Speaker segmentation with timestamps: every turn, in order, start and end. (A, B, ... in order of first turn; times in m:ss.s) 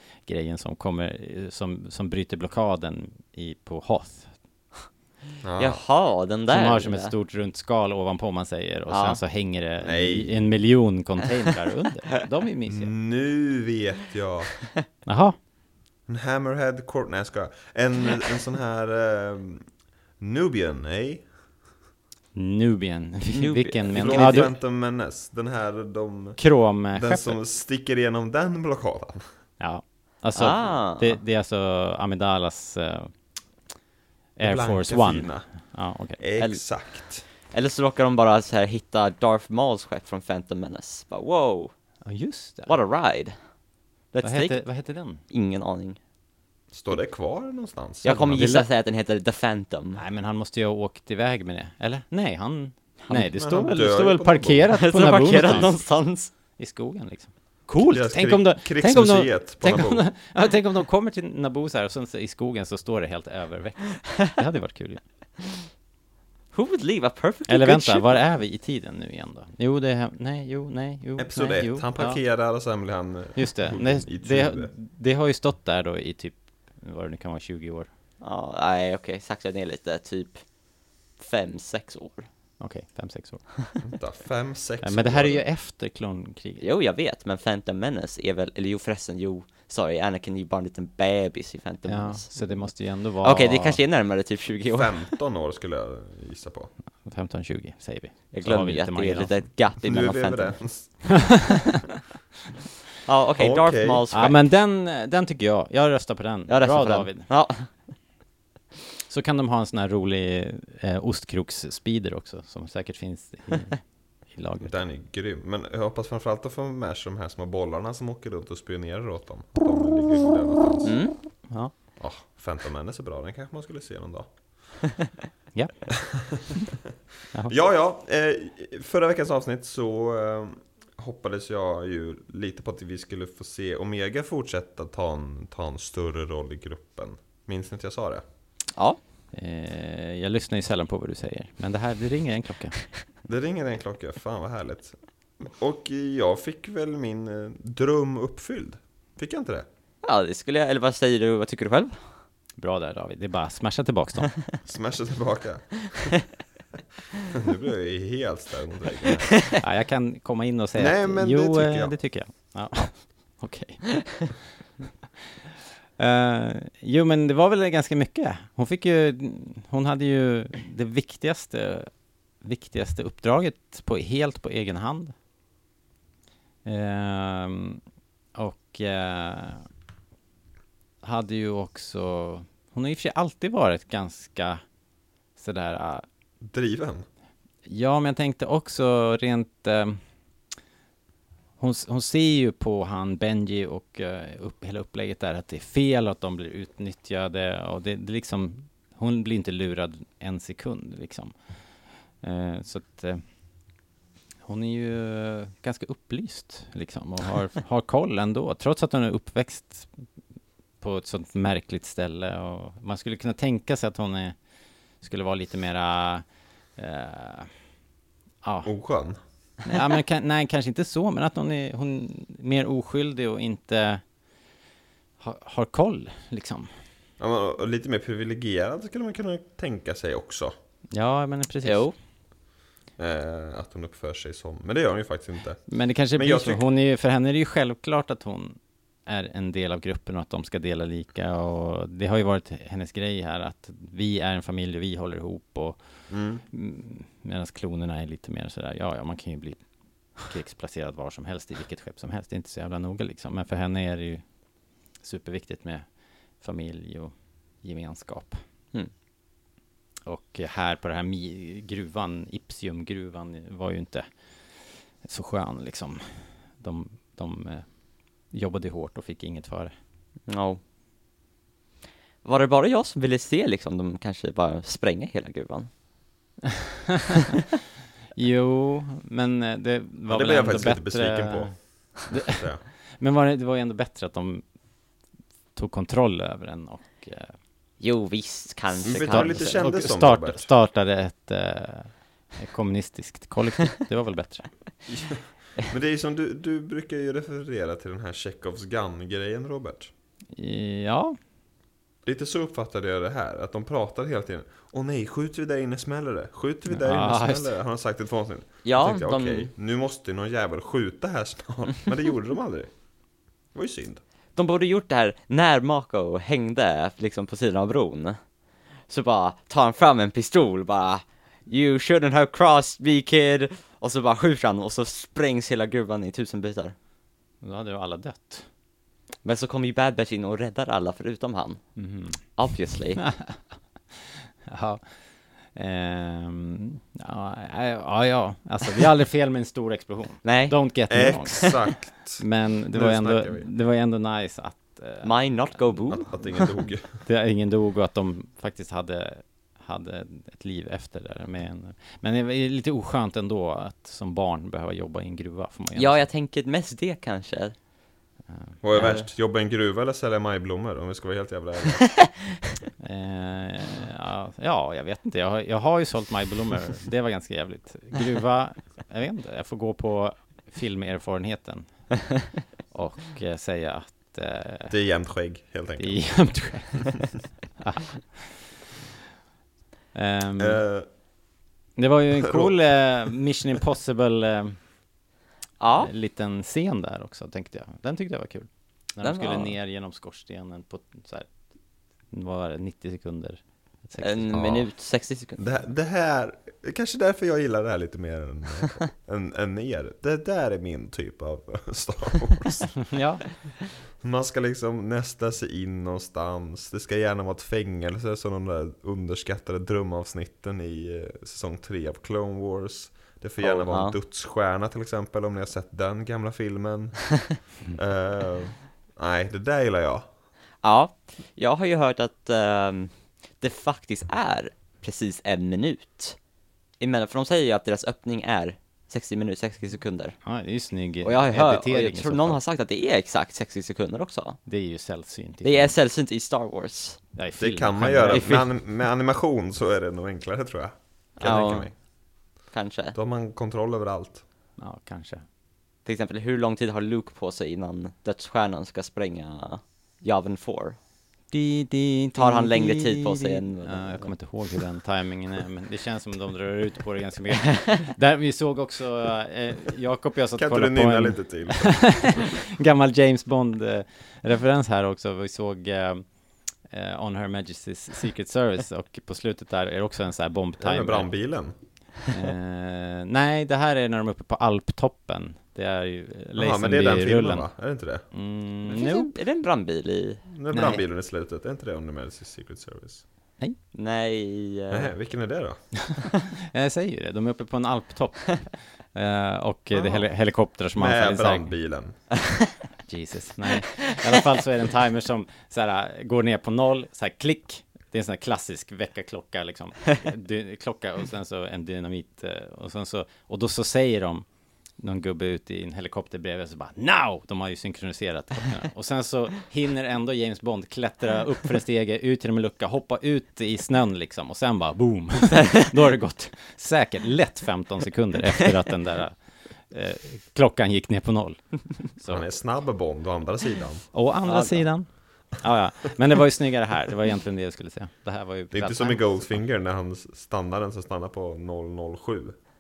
0:00.2-0:04.4 A
0:05.4-0:05.8 B
0:05.6-0:07.1 C
0:06.5-0:12.9 A
0:08.9-0:09.2 C
0:09.8-0:10.4 B
0:12.7-0:14.5 B
0:15.1-0:15.4 A
0:16.1-0:19.7 B
0:20.2-0:21.3 B
0:22.4-0:24.5 A
0:23.3-0:24.5 C
0:23.9-0:26.4 B
0:26.4-0:27.4 A
0:26.9-0:29.3 B
0:29.6-0:33.1 A
0:30.4-0:31.2 C
0:34.4-0:36.2 A
0:34.4-0:35.5 B
0:36.2-0:37.3 B
0:37.5-0:41.7 C
0:42.0-0:42.7 A
0:42.7-0:43.4 C
0:44.1-0:44.6 C
0:44.2-0:45.2 A
0:45.3-0:46.0 C
0:46.7-0:48.4 B
0:48.0-0:50.0 C
0:48.3-0:48.7 A
0:50.0-0:55.9 A
0:53.2-0:55.7 B
0:54.8-0:56.3 C
0:56.6-1:05.0 A
0:57.8-1:00.0 B
1:06.5-1:08.2 C
1:07.5-1:12.2 A
1:11.2-1:14.7 B
1:13.4-1:17.9 A
1:18.2-1:20.4 C
1:21.2-1:22.3 C
1:22.6-1:23.4 A
1:23.8-1:25.4 B
1:24.8-1:26.6 A
1:26.6-1:32.7 C
1:31.9-1:33.8 A
1:33.2-1:35.1 C
1:34.7-1:36.7 B
1:37.0-1:39.4 A
1:38.3-1:40.6 C
1:39.8-1:41.4 B
1:43.1-1:44.4 C
1:43.4-1:44.0 B
1:44.1-1:47.3 A
1:46.5-1:47.7 C
1:49.1-1:54.7 A
1:54.6-2:01.0 B
2:00.8-2:01.2 C
2:01.5-2:01.7 A
2:02.0-2:04.3 B
2:06.2-2:06.6 B
2:07.5-2:18.2 B
2:19.3-2:22.9 A
2:23.2-2:29.7 B
2:30.0-2:32.0 C
2:32.6-2:34.3 A
2:34.6-2:36.1 B
2:37.3-2:39.4 B
2:39.3-2:39.6 C
2:39.6-2:44.0 A
2:40.8-2:42.0 B
2:46.0-2:55.2 A
2:56.6-2:57.8 A
2:58.4-2:59.7 A
3:01.0-3:04.6 A
3:05.4-3:06.1 A
3:06.4-3:07.1 B
3:07.7-3:10.0 A
3:11.6-3:21.3 A
3:22.2-3:23.2 A
3:24.4-3:30.0 A
3:30.8-3:34.4 A
3:35.0-3:36.2 A
3:36.8-3:37.5 A
3:38.4-3:38.7 A
3:38.6-3:39.2 B
3:39.6-3:44.0 A
3:45.2-3:46.7 A
3:47.2-3:50.5 B
3:50.9-3:51.9 A
3:51.6-3:51.9 C
3:53.0-3:56.6 B
3:55.7-4:05.8 A
4:06.1-4:06.4 B
4:06.5-4:09.6 A
4:10.2-4:14.2 A
4:15.0-4:15.9 A
4:16.4-4:18.4 A
4:20.1-4:27.7 A
4:28.3-4:29.7 A
4:30.3-4:30.6 C
4:32.2-4:35.7 C
4:38.2-4:41.6 A
4:40.1-4:42.6 B
4:42.1-4:44.4 A
4:45.6-4:47.4 A
4:47.8-4:49.5 C
4:48.8-4:50.5 B
4:48.9-4:54.5 A
4:54.9-4:59.9 B
5:00.3-5:01.2 A
5:02.0-5:12.7 B
5:06.7-5:07.5 A
5:08.6-5:09.5 C
5:13.5-5:14.0 B
5:14.4-5:18.2 C
5:18.9-5:26.8 C
5:27.4-5:28.4 A
5:29.2-5:31.7 C
5:31.8-5:32.2 A
5:32.2-5:33.0 C
5:33.0-5:33.4 A
5:33.9-5:34.8 A
5:35.5-5:45.6 A
5:40.2-5:40.6 C
5:40.9-5:43.5 B
5:45.0-5:46.5 C
5:45.9-5:47.0 B
5:47.0-5:56.1 A
5:55.8-5:57.6 C
5:58.3-5:58.9 A
5:58.6-6:02.0 B
5:58.7-5:59.1 C
6:02.8-6:12.1 A
6:12.7-6:14.7 A
6:14.7-6:16.5 B
6:15.8-6:18.4 A
6:19.9-6:20.6 A
6:20.4-6:20.9 B
6:21.8-6:24.6 A
6:22.2-6:22.6 B
6:25.6-6:25.9 C
6:25.8-6:31.3 A
6:29.0-6:29.5 C
6:32.1-6:34.4 A
6:34.0-6:35.4 C
6:34.3-6:34.7 B
6:35.4-6:42.8 B
6:42.8-6:43.2 A
6:44.0-7:00.1 B
6:53.4-6:54.0 C
7:00.6-7:06.2 C
7:06.8-7:10.2 C
7:10.2-7:12.4 A
7:11.0-7:14.4 C
7:14.5-7:15.7 A
7:15.4-7:17.0 C
7:17.2-7:18.4 A
7:17.4-7:21.7 B
7:18.1-7:18.4 C
7:21.2-7:21.8 C
7:22.5-7:23.0 C
7:22.9-7:24.2 B
7:24.6-7:25.2 A
7:25.8-7:30.8 C
7:31.3-7:46.1 A
7:32.2-7:34.1 C
7:40.4-7:42.2 B
7:46.7-7:51.1 A
7:50.6-7:51.5 B
7:52.1-7:57.5 A
7:56.4-7:58.0 B
7:58.1-7:59.1 A
7:58.7-8:00.2 C
8:00.3-8:03.0 B
8:00.5-8:00.8 A
8:03.7-8:04.9 C
8:04.7-8:05.7 B
8:06.4-8:11.5 A
8:09.7-8:10.0 B
8:10.8-8:12.0 B
8:12.9-8:24.3 A
8:24.8-8:39.2 A
8:39.7-8:42.3 A
8:42.1-8:43.9 B
8:43.9-8:49.4 A
8:44.3-8:44.6 C
8:48.5-8:52.4 B